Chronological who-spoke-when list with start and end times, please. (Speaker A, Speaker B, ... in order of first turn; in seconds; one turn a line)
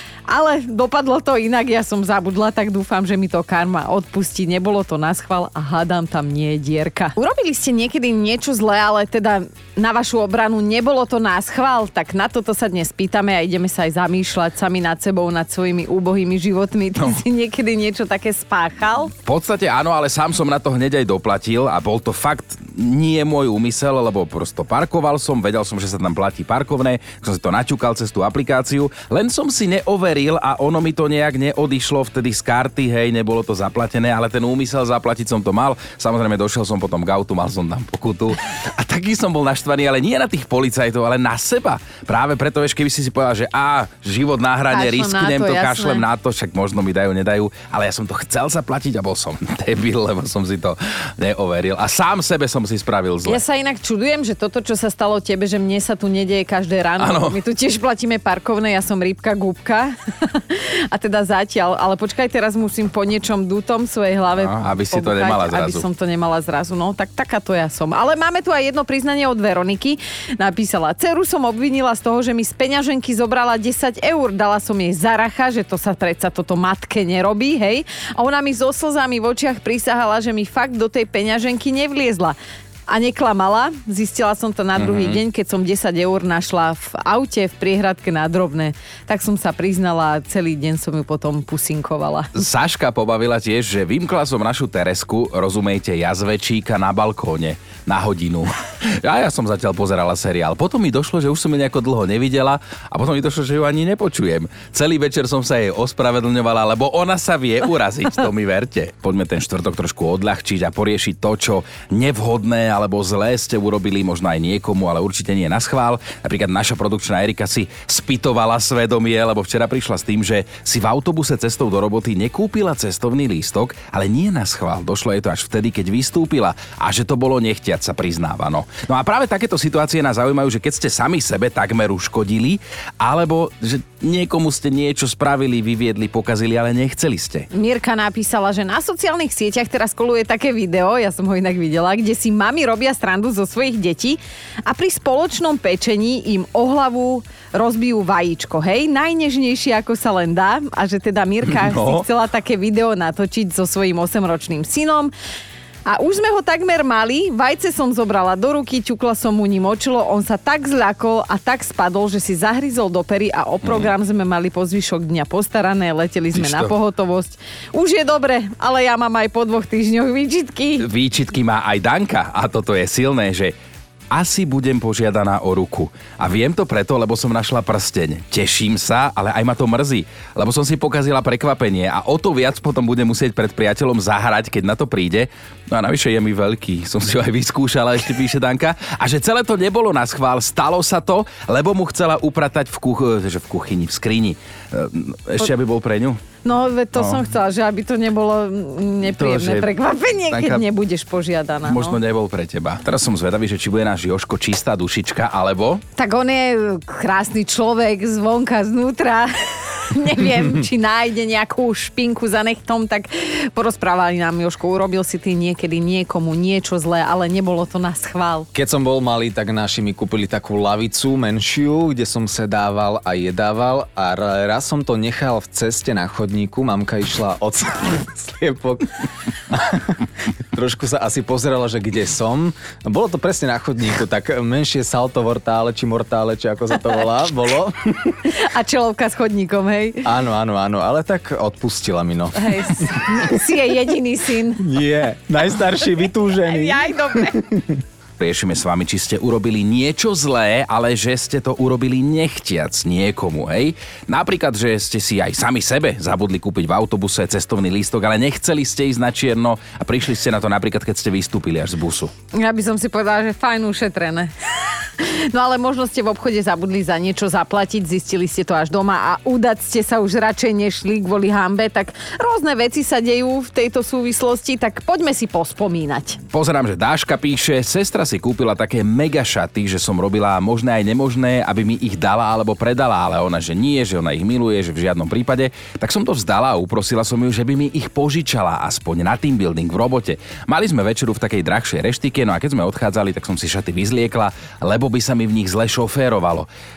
Speaker A: 0.3-19.1
Speaker B: 19.2-53.4
Speaker A: 44.7-46.1
Speaker A: 53.2-92.3
Speaker B: 57.0-57.4
Speaker B: 64.4-65.8
Speaker B: 84.8-85.2
Speaker B: 92.3-137.5
Speaker A: 137.5-155.1
Speaker B: 151.5-152.1
Speaker A: 155.8-170.9
Speaker B: 163.6-163.9
Speaker B: 166.3-166.8
Speaker B: 170.8-173.5
Speaker B: 174.1-196.2
Speaker A: 196.4-202.0
Speaker B: 197.0-197.2
Speaker B: 199.0-199.7
Speaker B: 200.3-200.6
Speaker B: 201.7-205.8
Speaker A: 206.0-218.5
Speaker C: 218.6-238.2
Speaker A: 238.3-240.0
Speaker C: 240.1-243.4
Speaker A: 242.4-244.6
Speaker C: 244.6-247.8
Speaker A: 246.5-247.4
Speaker B: 248.2-262.1
Speaker A: 262.3-264.3
Speaker A: 264.9-276.2
Speaker B: 276.3-296.5